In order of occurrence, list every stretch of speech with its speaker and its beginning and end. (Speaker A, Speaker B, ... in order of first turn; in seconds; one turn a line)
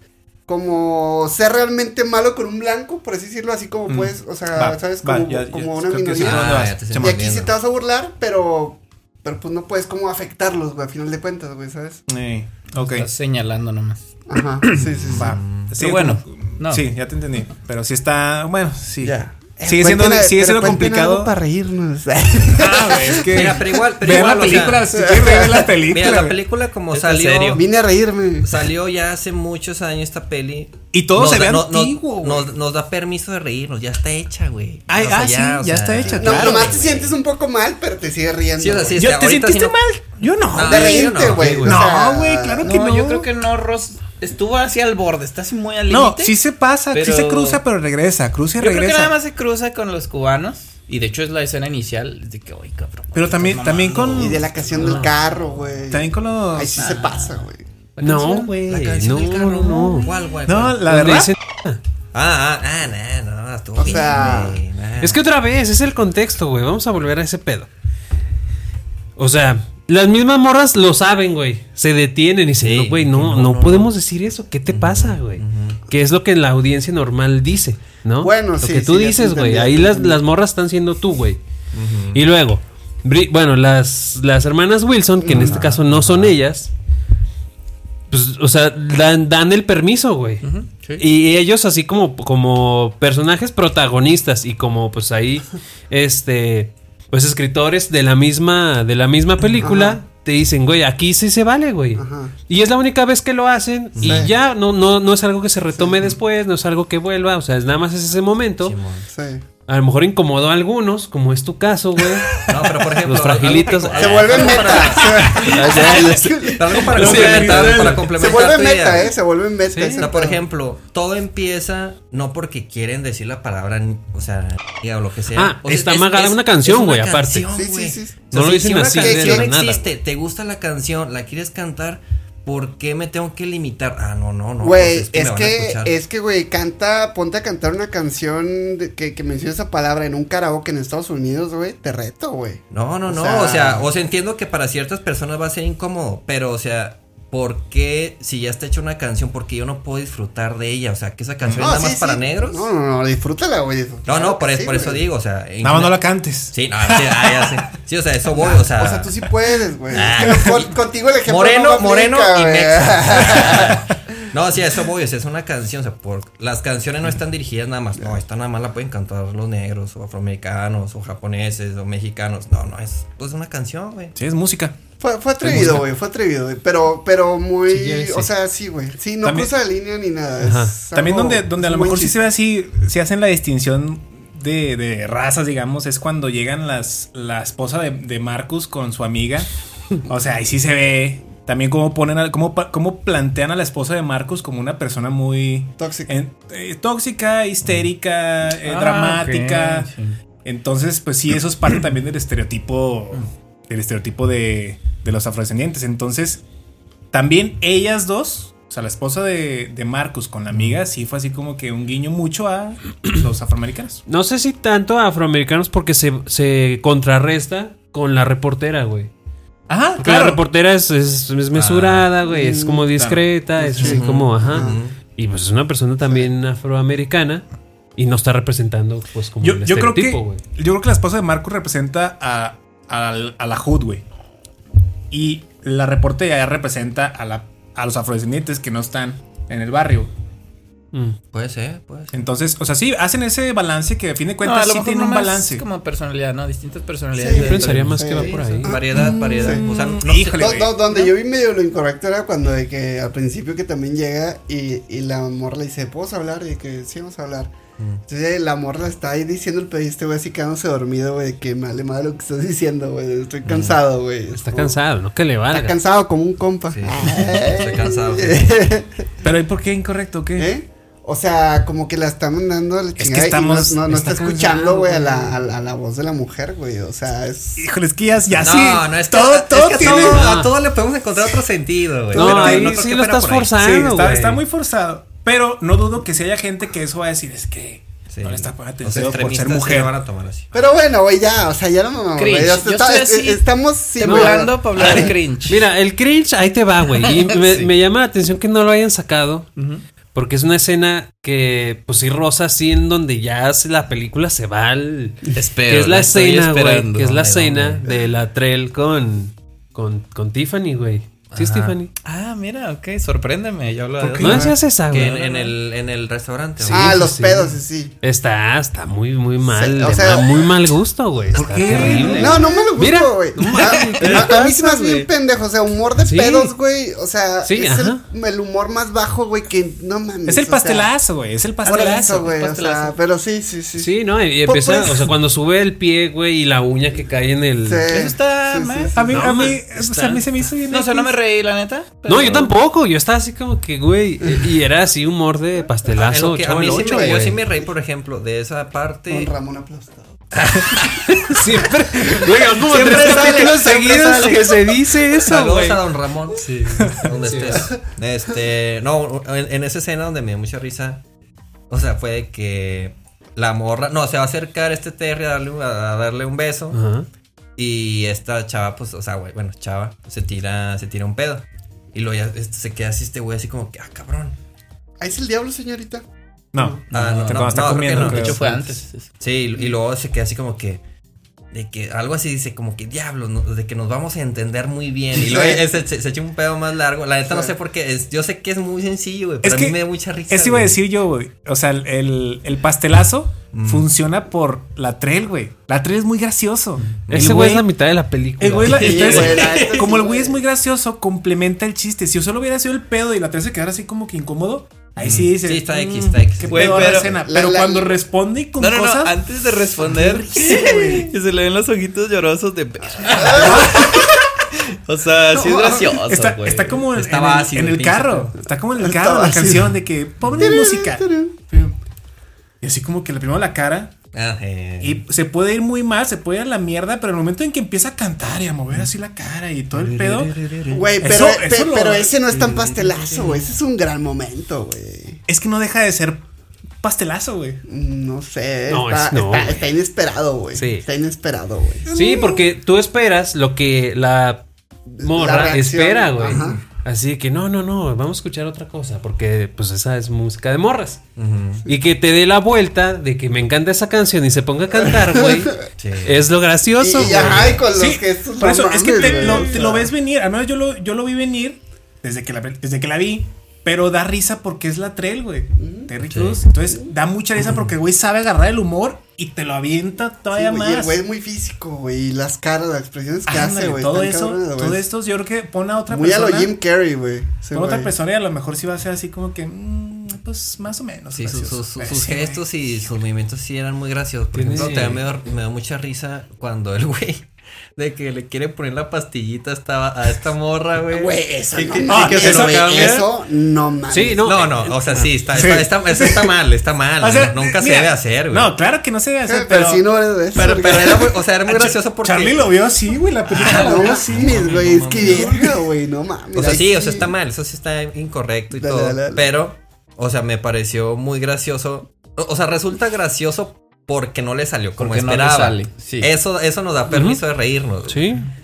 Speaker A: 0.5-12.1
Speaker B: 3.9-7.2
Speaker C: 6.2-7.5
Speaker B: 12.1-13.1
Speaker D: 12.8-14.1
Speaker A: 14.3-15.4
Speaker C: 14.7-15.7
Speaker B: 15.1-21.3
Speaker D: 15.8-16.9
Speaker A: 19.0-23.7
Speaker B: 22.6-26.4
Speaker C: 23.1-24.9
Speaker A: 24.9-25.7
Speaker C: 25.7-27.6
Speaker D: 26.9-27.6
Speaker A: 27.5-28.5
Speaker C: 28.4-37.2
Speaker B: 30.9-32.5
Speaker B: 34.9-36.7
Speaker A: 36.2-39.0
Speaker C: 38.6-39.8
Speaker B: 39.0-43.3
Speaker C: 40.5-41.7
Speaker A: 40.6-42.8
Speaker E: 41.3-41.8
Speaker D: 42.6-46.4
Speaker B: 45.9-49.1
Speaker D: 46.9-47.6
Speaker D: 48.6-55.0
Speaker B: 53.1-54.6
Speaker A: 54.1-57.6
Speaker E: 54.8-55.1
Speaker B: 55.9-56.9
Speaker D: 56.8-57.5
Speaker E: 58.0-60.1
Speaker C: 58.5-60.8
Speaker B: 60.5-61.3
Speaker E: 60.8-61.8
Speaker C: 62.1-65.2
Speaker A: 63.8-64.6
Speaker E: 65.0-67.7
Speaker E: 69.2-81.4
Speaker C: 72.6-73.9
Speaker C: 74.7-75.8
Speaker A: 78.2-80.2
Speaker C: 81.7-82.2
Speaker E: 82.1-86.7
Speaker A: 85.2-85.6
Speaker C: 85.3-86.3
Speaker E: 88.1-108.8
Speaker D: 90.4-91.0
Speaker A: 99.6-100.0
Speaker A: 102.0-102.3
Speaker C: 104.0-104.3
Speaker A: 104.0-104.3
Speaker A: 105.8-106.1
Speaker C: 108.6-109.1
Speaker A: 109.1-109.4
Speaker E: 109.7-112.5
Speaker C: 112.3-119.2
Speaker E: 113.0-114.6
Speaker A: 114.0-120.4
Speaker D: 115.5-117.9
Speaker B: 116.8-118.1
Speaker E: 119.7-120.1
Speaker C: 120.0-136.0
Speaker E: 125.3-127.5
Speaker A: 127.5-128.3
Speaker E: 128.3-129.8
Speaker A: 128.9-129.5
Speaker A: 134.6-143.9
Speaker C: 142.7-152.7
Speaker B: 151.4-151.7
Speaker A: 151.6-155.0
Speaker C: 154.1-159.2
Speaker B: 155.6-157.6
Speaker A: 158.3-163.9
Speaker C: 159.9-160.8
Speaker B: 160.2-160.7
Speaker C: 161.3-174.2
Speaker B: 174.2-174.8
Speaker A: 175.0-182.2
Speaker B: 175.4-175.8
Speaker E: 175.5-175.8
Speaker E: 177.7-178.3
Speaker B: 179.2-179.5
Speaker E: 180.4-180.8
Speaker B: 180.9-189.5
Speaker B: 190.0-199.9
Speaker A: 195.8-196.1
Speaker D: 198.6-200.2
Speaker B: 200.4-206.4
Speaker B: 207.1-214.0
Speaker E: 214.1-219.1
Speaker B: 219.7-220.4
Speaker E: 220.0-227.4
Speaker C: 221.5-222.1
Speaker A: 222.2-222.9
Speaker B: 222.9-224.0
Speaker A: 223.6-224.8
Speaker C: 223.8-225.0
Speaker E: 228.0-230.4
Speaker B: 229.4-234.0
Speaker B: 235.1-240.1
Speaker C: 241.3-242.2
Speaker B: 242.1-245.7
Speaker D: 244.4-248.7
Speaker A: 247.2-257.5
Speaker E: 247.3-248.8
Speaker C: 248.6-250.7
Speaker B: 248.9-250.8
Speaker A: 258.1-264.8
Speaker C: 263.4-263.8
Speaker E: 264.3-265.8
Speaker A: 265.5-269.1
Speaker C: 266.7-268.6
Speaker B: 269.2-270.5
Speaker A: 270.4-277.6
Speaker B: 273.0-275.3
Speaker B: 277.6-280.4
Speaker C: 278.4-283.6
Speaker E: 279.8-280.5
Speaker B: 282.1-282.8
Speaker E: 282.1-284.4
Speaker B: 283.6-289.9
Speaker C: 288.1-290.5
Speaker A: 290.5-295.1
Speaker D: 292.2-293.4
Speaker D: 294.0-295.6
Speaker E: 294.0-299.5
Speaker D: 296.9-297.7
Speaker D: 299.6-299.8
Speaker E: 300.1-311.9
Speaker D: 305.3-307.3
Speaker C: 307.1-307.8
Speaker A: 307.9-308.1
Speaker C: 311.3-311.8
Speaker D: 312.0-315.5
Speaker B: 314.0-314.6
Speaker E: 314.2-315.2
Speaker C: 314.9-317.0
Speaker E: 316.7-325.1
Speaker A: 316.7-318.0
Speaker A: 319.4-320.7
Speaker B: 321.3-322.4
Speaker D: 321.7-322.5
Speaker A: 322.1-330.9
Speaker D: 323.6-324.3
Speaker E: 326.0-326.5
Speaker E: 327.4-328.0
Speaker B: 330.3-332.3
Speaker A: 331.6-333.9
Speaker D: 331.7-332.9
Speaker E: 333.8-338.0
Speaker A: 334.4-335.1
Speaker A: 337.6-339.2
Speaker D: 337.9-339.5
Speaker B: 338.9-341.2
Speaker E: 339.1-340.2
Speaker D: 340.7-342.5
Speaker E: 342.1-347.4
Speaker A: 344.2-344.5
Speaker C: 345.9-349.3
Speaker A: 346.7-347.4
Speaker A: 349.1-350.2
Speaker C: 350.4-351.2
Speaker E: 351.0-355.8
Speaker C: 352.5-361.0
Speaker A: 353.1-353.5
Speaker A: 354.2-354.5
Speaker D: 356.4-356.9
Speaker B: 356.8-357.1
Speaker E: 357.2-357.7
Speaker A: 357.5-357.8
Speaker C: 361.7-366.8
Speaker E: 366.7-367.1
Speaker C: 367.6-374.4
Speaker A: 375.0-376.8
Speaker B: 376.5-378.7
Speaker D: 376.9-379.1
Speaker C: 376.9-378.4
Speaker C: 379.2-380.8
Speaker C: 381.5-390.8
Speaker A: 385.1-385.7
Speaker A: 387.3-387.5
Speaker B: 389.4-397.7
Speaker C: 393.5-393.9
Speaker C: 396.9-397.4
Speaker E: 397.1-399.4
Speaker B: 398.4-409.2
Speaker A: 398.6-400.4
Speaker D: 398.7-399.9
Speaker C: 399.1-399.7
Speaker C: 405.0-407.1
Speaker D: 406.5-407.1
Speaker A: 407.2-408.0
Speaker D: 408.6-414.1
Speaker B: 409.8-411.1
Speaker A: 413.0-413.8
Speaker B: 413.3-414.1
Speaker D: 414.9-416.9
Speaker A: 415.3-415.9
Speaker B: 415.8-421.8
Speaker C: 416.9-418.3
Speaker A: 418.8-419.8
Speaker C: 420.2-420.5
Speaker A: 420.4-421.4
Speaker B: 422.6-423.9
Speaker C: 424.1-425.0
Speaker B: 424.8-430.4
Speaker C: 429.7-431.1
Speaker A: 430.7-435.2
Speaker B: 431.0-432.5
Speaker C: 432.3-433.3
Speaker B: 435.3-436.2
Speaker B: 436.8-437.6
Speaker A: 437.7-442.4
Speaker E: 438.7-439.7
Speaker E: 440.6-440.9
Speaker B: 441.9-442.3
Speaker E: 441.9-444.5
Speaker E: 445.0-451.0
Speaker A: 445.0-446.6
Speaker C: 451.2-451.7
Speaker E: 451.7-457.6
Speaker A: 455.0-455.5
Speaker C: 455.8-456.2
Speaker A: 456.8-459.9
Speaker C: 457.0-457.6
Speaker B: 457.7-471.0
Speaker A: 465.6-465.9
Speaker C: 466.1-466.4
Speaker A: 470.3-474.8
Speaker B: 473.3-476.6
Speaker A: 475.9-477.9
Speaker B: 477.5-482.4
Speaker C: 481.1-493.1
Speaker E: 484.4-485.0
Speaker A: 490.9-494.4
Speaker B: 491.8-492.9
Speaker E: 493.9-495.1
Speaker C: 494.2-498.5
Speaker B: 495.3-496.4
Speaker B: 497.0-499.9
Speaker A: 499.3-501.2
Speaker C: 500.3-502.5
Speaker B: 501.5-505.6
Speaker C: 503.3-505.5
Speaker A: 503.4-507.1
Speaker C: 506.3-518.1
Speaker A: 508.5-509.2
Speaker D: 514.8-516.1
Speaker E: 516.9-517.2
Speaker E: 517.9-518.3